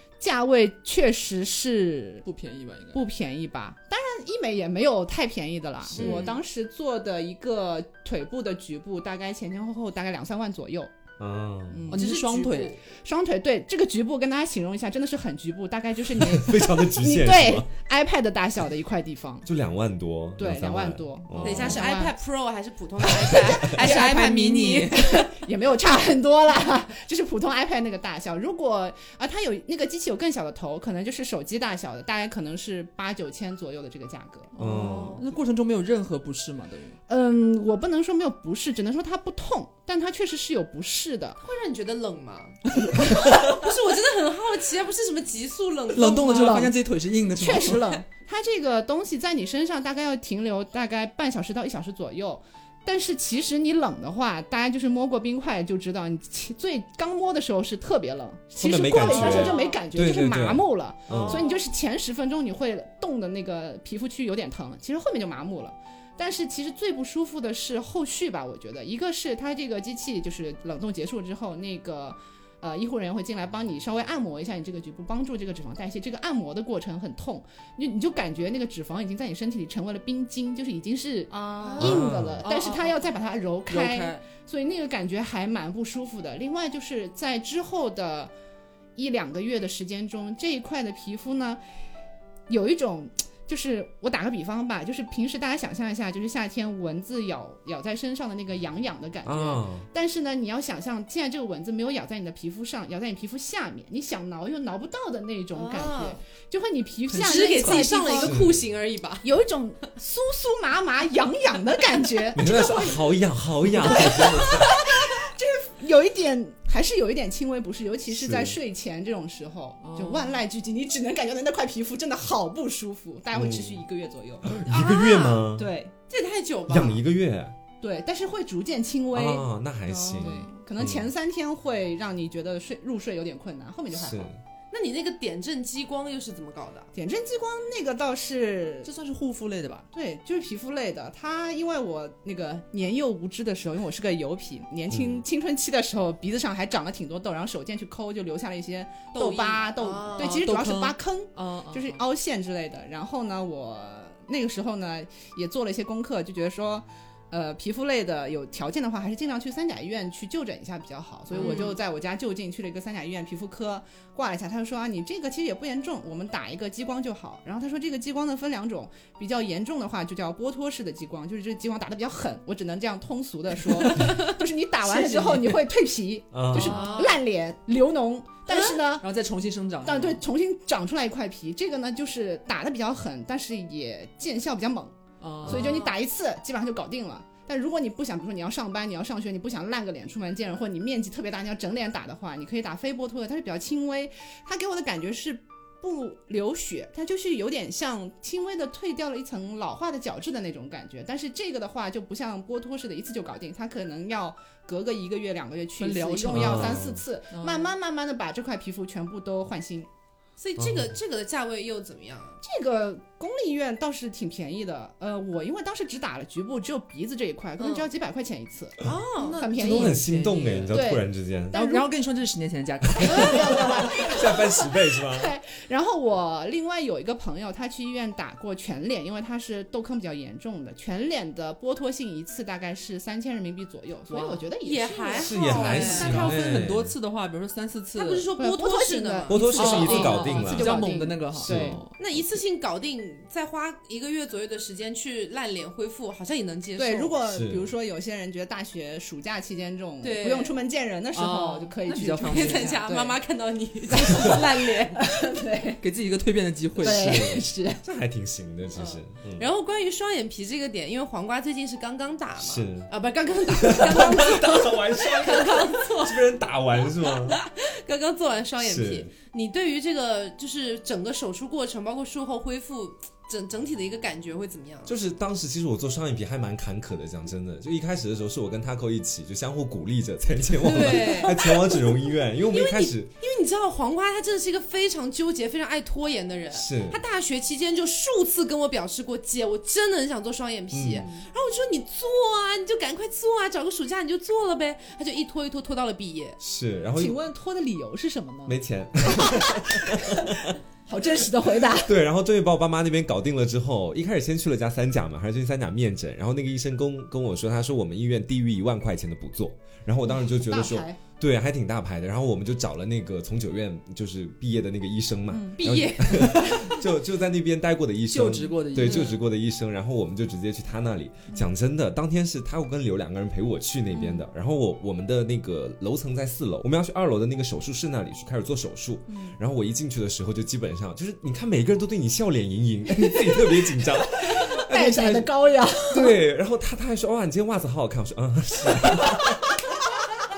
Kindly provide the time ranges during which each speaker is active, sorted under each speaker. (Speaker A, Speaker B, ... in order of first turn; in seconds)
Speaker A: 0.2-2.3, 2.9-10.9, 11.7-12.1, 13.0-19.5, 20.4-22.1, 23.6-34.5, 37.1-41.4, 46.3-46.8, 47.4-88.3, 89.0-91.6, 92.5-108.4, 109.2-124.6, 125.5-125.9, 127.8-129.5, 130.2-134.3, 136.9-138.9, 139.9-179.1, 179.8-209.9, 212.4-220.1, 220.7-221.9, 223.0-236.4, 238.4-241.8, 246.8-253.1, 253.9-255.8, 256.8-257.8, 296.9-302.0, 310.1-311.0, 315.3-316.1, 323.9-324.2, 332.9-336.2
Speaker B: 2.2-3.0, 11.9-12.8, 23.6-25.0, 34.5-37.0, 45.9-47.9, 81.7-83.0, 83.7-84.2, 107.1-107.9, 119.8-120.4, 138.8-139.9, 150.2-152.0, 161.3-161.8, 173.8-174.2, 174.8-175.6, 176.5-177.0, 179.0-180.2, 185.2-185.8, 205.8-207.7, 219.2-220.8, 221.5-224.1, 234.1-234.4, 235.6-238.3, 239.5-241.9, 251.1-252.9, 255.8-257.2, 318.1-319.2
Speaker C: 5.9-6.2, 11.2-11.9, 16.1-17.7, 19.5-21.8, 34.6-35.2, 58.6-61.4, 81.8-82.4, 99.2-99.9, 108.2-108.6, 112.3-114.8, 118.1-118.6, 123.3-123.8, 124.4-125.7, 126.7-127.5, 129.1-131.1, 133.9-134.4, 144.9-145.2, 176.3-176.8, 206.3-207.0, 210.6-210.9, 219.6-221.6, 223.0-225.3, 235.2-236.9, 239.3-240.8, 241.4-241.8, 247.3-247.7, 256.8-259.5, 262.4-262.9, 263.5-267.4, 268.6-269.1, 274.9-283.1, 286.5-287.0, 290.7-291.1, 296.4-297.2, 298.5-300.6, 301.7-335.3, 335.9-339.6
Speaker D: 6.0-6.4, 11.9-12.8, 21.4-25.0, 34.7-35.2, 41.4-46.7, 59.0-59.8, 61.1-61.6, 81.5-82.0, 105.5-106.2, 107.2-109.3, 124.7-125.5, 126.1-127.0, 134.7-136.9, 149.1-150.4, 161.4-161.7, 176.5-177.2, 185.5-185.9, 210.4-212.4, 217.6-217.9, 218.8-219.4, 234.6-236.4, 237.9-240.5, 242.0-247.2, 250.0-250.6, 252.2-255.0, 258.8-266.2, 266.9-275.0, 280.6-281.9, 282.5-296.4, 315.6-316.8, 318.9-319.1